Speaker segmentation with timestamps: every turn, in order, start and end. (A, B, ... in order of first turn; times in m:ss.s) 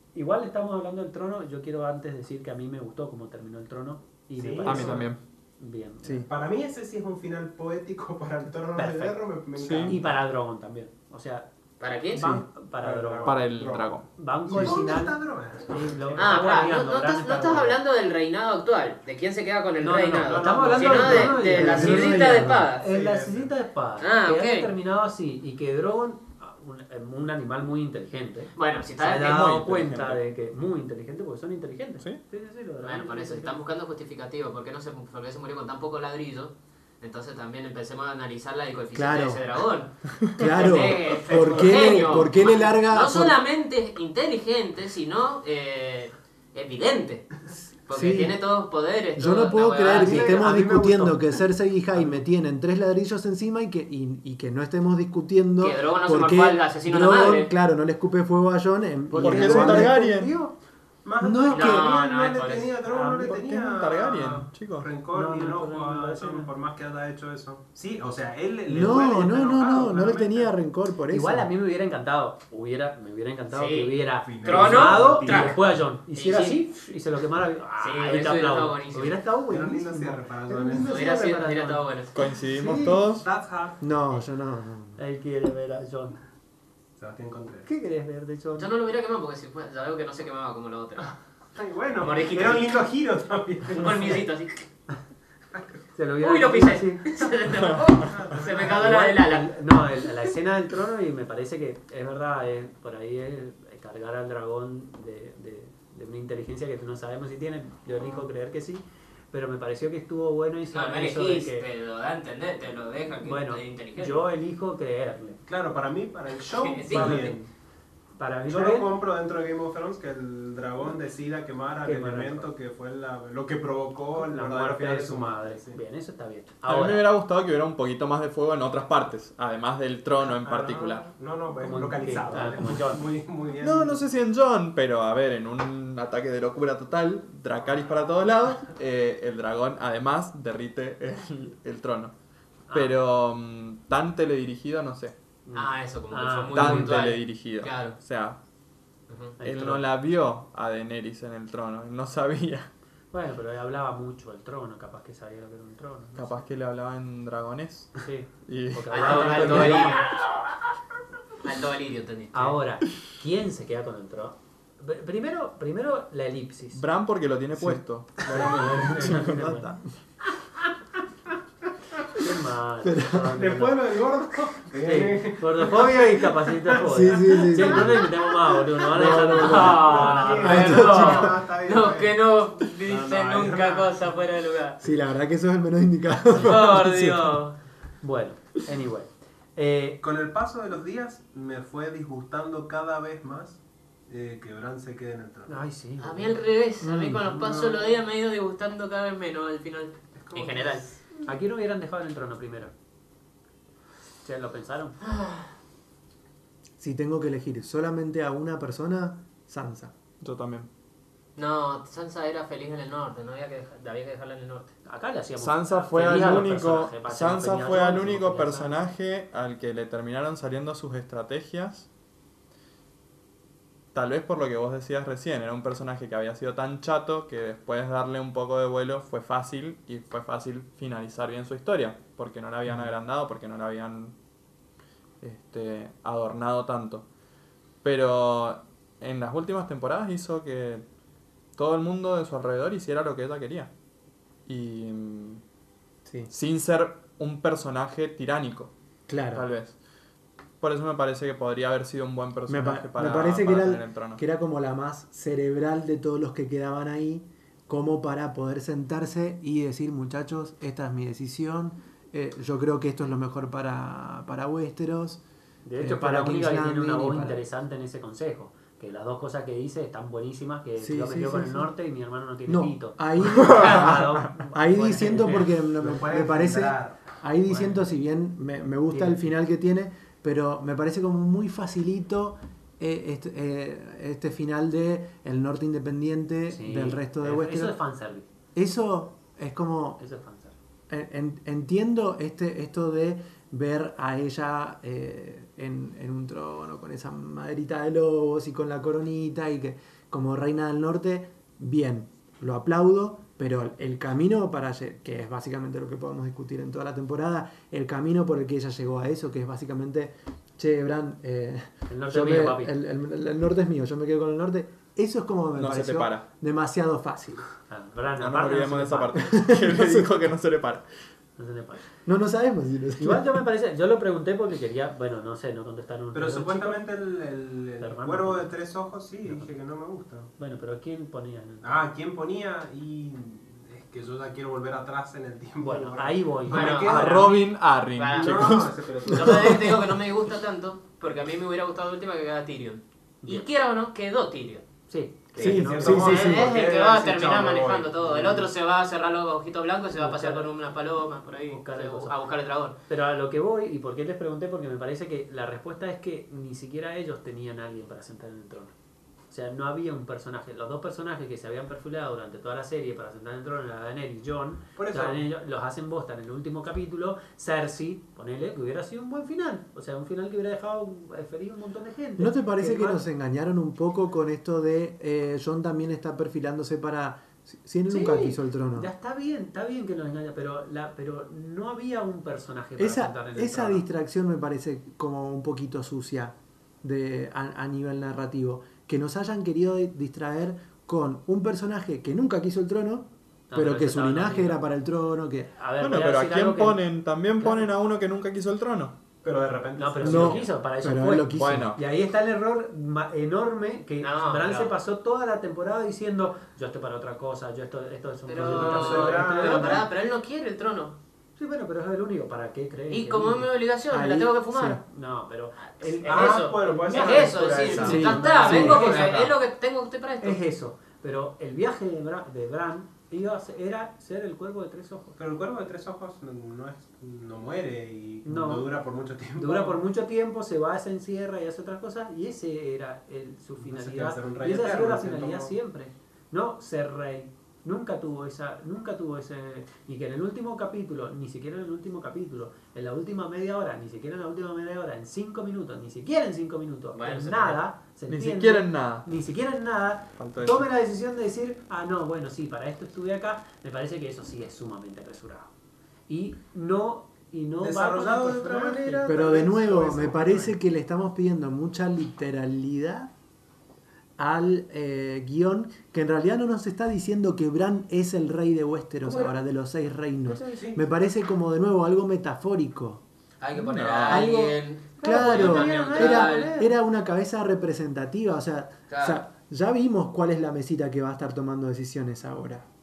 0:00.1-0:06.3 A
0:04.4-0:05.0 B
0:04.6-0:05.2 C
0:06.0-0:06.3 D
0:06.3-0:10.2 B
0:08.8-0:09.2 A
0:09.6-0:10.0 C
0:09.8-0:11.5 A
0:11.8-0:12.2 E
0:12.1-0:13.4 A
0:12.2-0:12.5 D
0:12.8-0:13.9 B
0:13.2-0:14.1 C
0:14.2-0:17.8 A
0:14.5-0:16.4 B
0:16.2-0:22.8 E
0:19.8-0:33.6 A
0:20.3-0:21.5 B
0:21.1-0:22.7 D
0:22.8-0:23.5 B
0:24.0-0:24.7 E
0:28.6-0:29.4 E
0:29.2-0:30.2 C
0:32.8-0:50.4 E
0:38.9-0:39.4 D
0:40.2-0:40.5 C
0:40.4-0:43.4 D
0:41.3-0:42.3 B
0:47.9-0:48.4 D
0:49.2-0:59.9 D
0:49.9-0:51.2 B
0:50.1-0:51.1 A
0:52.0-0:52.2 A
0:55.6-0:57.5 E
0:59.1-1:00.5 A
0:59.2-1:00.3 C
1:01.0-1:10.5 B
1:01.2-1:01.9 D
1:01.5-1:02.8 E
1:02.8-1:03.5 A
1:03.5-1:04.9 C
1:05.1-1:06.5 A
1:08.7-1:11.5 D
1:11.1-1:21.8 A
1:13.5-1:15.6 E
1:14.2-1:15.6 B
1:16.1-1:16.6 E
1:17.8-1:19.2 E
1:19.5-1:21.0 B
1:20.8-1:22.2 E
1:22.1-1:23.3 C
1:22.5-1:23.0 A
1:23.2-1:23.8 B
1:23.8-1:25.0 D
1:25.0-1:26.2 A
1:27.0-1:27.7 B
1:27.7-1:28.7 A
1:28.6-1:31.1 E
1:31.6-1:34.2 B
1:32.0-1:32.8 E
1:33.7-1:34.7 E
1:36.0-1:37.3 A
1:36.2-1:39.6 E
1:38.0-1:38.9 B
1:38.6-1:51.6 A
1:50.7-1:54.2 E
1:53.2-1:55.4 A
1:55.5-1:57.5 B
1:56.4-1:57.4 E
1:56.9-1:57.4 A
1:58.2-1:58.9 A
1:58.4-2:05.8 B
2:01.8-2:02.5 A
2:04.2-2:07.1 A
2:06.6-2:11.1 C
2:10.2-2:14.0 B
2:11.6-2:13.1 A
2:13.6-2:22.1 C
2:22.7-2:25.2 C
2:25.5-2:27.2 A
2:25.5-2:28.0 E
2:26.5-2:28.4 C
2:29.1-2:29.4 E
2:29.4-2:29.9 A
2:29.4-2:32.7 C
2:33.1-2:36.4 A
2:36.2-2:40.0 C
2:38.0-2:40.1 A
2:38.9-2:40.2 E
2:41.4-2:42.6 E
2:42.3-2:46.8 A
2:46.7-2:49.5 C
2:47.6-2:49.8 D
2:48.2-2:49.7 A
2:52.2-2:53.8 A
2:52.8-2:53.4 D
2:53.3-2:58.0 B
2:54.8-3:00.8 A
2:56.9-2:58.1 D
2:58.9-3:04.8 E
2:58.9-2:59.9 D
2:59.4-3:02.2 B
3:00.4-3:01.4 D
3:02.9-3:04.0 B
3:04.8-3:07.4 D
3:06.3-3:07.6 E
3:08.0-3:10.0 A
3:10.0-3:15.6 B
3:15.5-3:16.4 A
3:16.0-3:20.8 E
3:16.8-3:17.3 D
3:17.4-3:17.7 A
3:20.2-3:21.0 B
3:21.2-3:22.7 A
3:24.2-3:25.0 A
3:25.0-3:25.5 E
3:26.8-3:30.0 D
3:30.2-3:30.7 C
3:31.4-3:34.7 E
3:34.8-3:38.8 A
3:35.4-3:41.9 C
3:43.9-3:54.2 C
3:55.2-3:57.1 C
3:57.8-4:00.8 C
4:01.6-4:03.7 C
4:04.5-4:05.4 C
4:06.3-4:08.7 C
4:09.1-4:09.5 D
4:09.3-4:09.8 C
4:10.6-4:14.2 C
4:12.5-4:25.2 D
4:25.6-4:35.5 A
4:25.8-4:27.4 D
4:30.8-4:31.7 D
4:32.5-4:47.8 D
4:33.4-4:34.0 C
4:35.8-4:37.0 B
4:37.5-4:37.8 A
4:38.9-4:39.3 A
4:46.5-4:48.3 A
4:48.6-4:50.0 D
4:50.0-4:50.6 A
4:50.9-5:17.5 D
5:11.9-5:12.8 A
5:15.6-5:16.3 C
5:17.7-5:19.2 A
5:18.2-5:20.9 C
5:19.2-5:20.3 D
5:21.4-5:21.9 A
5:22.1-5:23.4 D
5:23.0-5:26.8 A
5:26.1-5:30.3 B
5:27.8-5:28.5 A
5:30.4-5:31.8 A
5:31.6-5:37.3 B
5:35.6-5:37.4 A
5:36.5-5:37.2 E
5:36.6-5:38.8 C
5:38.0-5:44.6 E
5:38.1-5:39.8 B
5:44.9-5:46.2 A
5:45.4-5:48.4 B
5:45.4-5:46.5 D
5:45.9-5:52.8 E
5:49.9-5:50.5 A
5:51.5-5:52.2 A
5:52.9-5:58.7 A
5:59.3-6:13.0 A
6:04.8-6:05.2 B
6:12.2-6:18.9 D
6:17.9-6:23.9 A
6:22.8-6:35.6 D
6:33.5-6:34.6 A
6:35.6-6:36.8 A
6:35.8-6:39.0 C
6:37.4-6:37.7 A
6:39.2-6:40.5 B
6:39.8-6:49.9 A
6:40.0-6:41.8 D
6:41.4-6:41.8 C
6:44.0-6:44.8 E
6:48.3-6:51.0 E
6:48.4-6:49.9 B
6:51.4-6:53.5 A
6:52.9-6:54.8 E
6:53.9-6:54.8 D
6:54.8-6:59.3 A
6:56.0-7:00.4 E
6:56.0-6:58.2 B
6:57.6-6:59.3 C
6:57.8-6:58.9 D
7:00.2-7:05.2 A
7:05.2-7:09.8 B
7:08.2-7:08.7 A
7:09.4-7:35.5 A
7:13.6-7:15.5 B
7:26.9-7:27.6 E
7:28.1-7:29.1 C
7:30.2-7:30.7 C
7:36.1-7:39.2 A
7:37.6-7:40.6 B
7:39.1-7:43.1 D
7:44.2-7:53.0 D
7:50.3-7:50.7 A
7:53.4-7:56.5 E
7:53.6-7:54.3 C
7:54.1-8:02.7 D
7:55.0-7:56.8 A
7:58.9-7:59.2 E